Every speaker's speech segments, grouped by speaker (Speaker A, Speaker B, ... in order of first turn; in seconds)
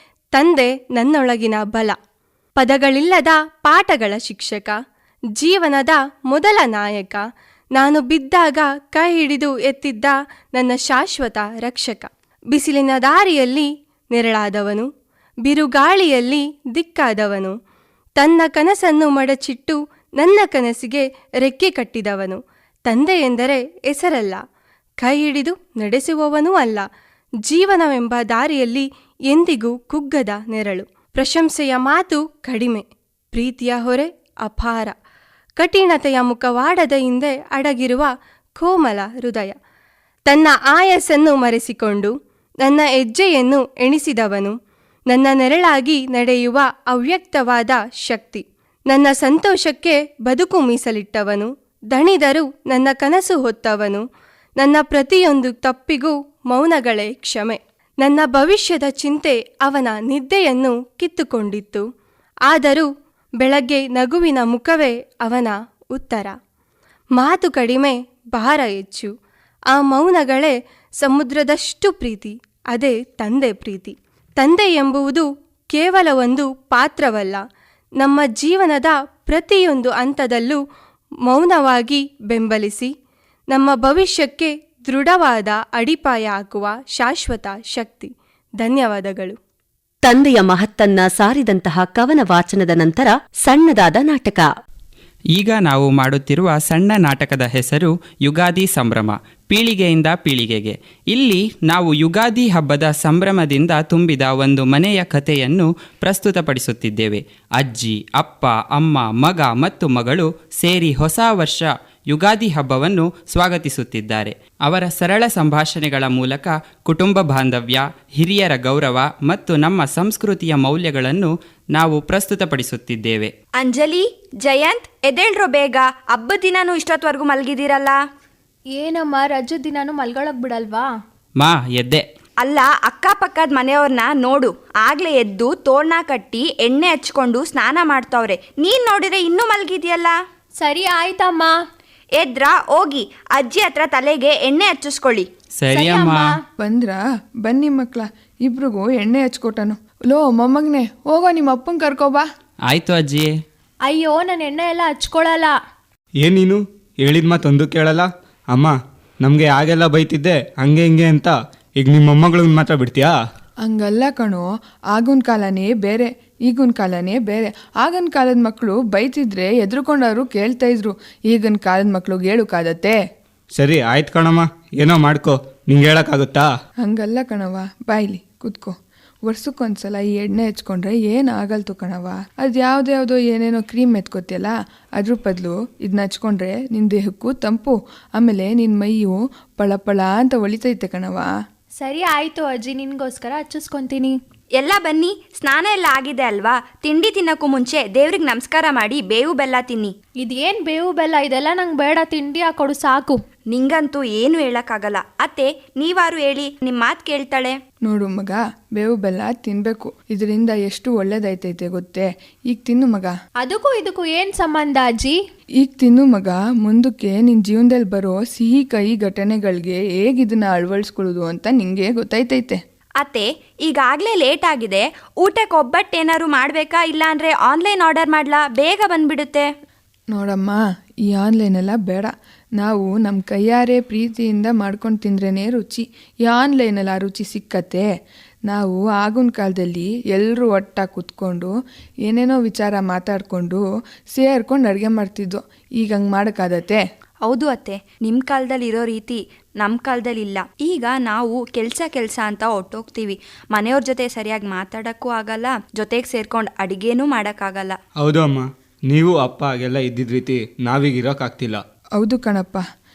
Speaker A: 0.3-1.9, 2.6-4.8, 5.4-7.2, 7.8-14.9, 15.4-17.5, 18.2-24.4, 25.0-26.9, 27.4-34.9, 35.6-39.5, 40.3-44.5, 45.1-54.0, 54.6-61.8, 62.5-62.9, 63.4-66.3, 67.2-69.1, 69.7-77.4, 78.0-80.6, 81.3-82.9, 83.5-89.4
Speaker B: 90.0-94.5
Speaker C: 95.3-123.3, 131.4-132.0, 145.6-146.3, 152.7-153.3
Speaker D: 123.6-128.0, 132.4-140.1, 142.2-145.3, 194.6-199.9, 203.5-207.6, 223.0-229.4, 247.2-257.8
Speaker E: 128.7-130.9, 140.6-141.6, 145.7-146.4, 153.9-155.5, 191.8-194.2, 200.2-203.2, 213.4-215.2
Speaker F: 146.6-152.2, 163.6-173.0, 176.8-191.3, 207.8-213.1, 215.6-222.6, 230.1-237.8, 238.5-241.5, 242.1-246.8, 262.0-262.6
Speaker G: 156.2-163.1, 173.6-176.4, 258.0-261.6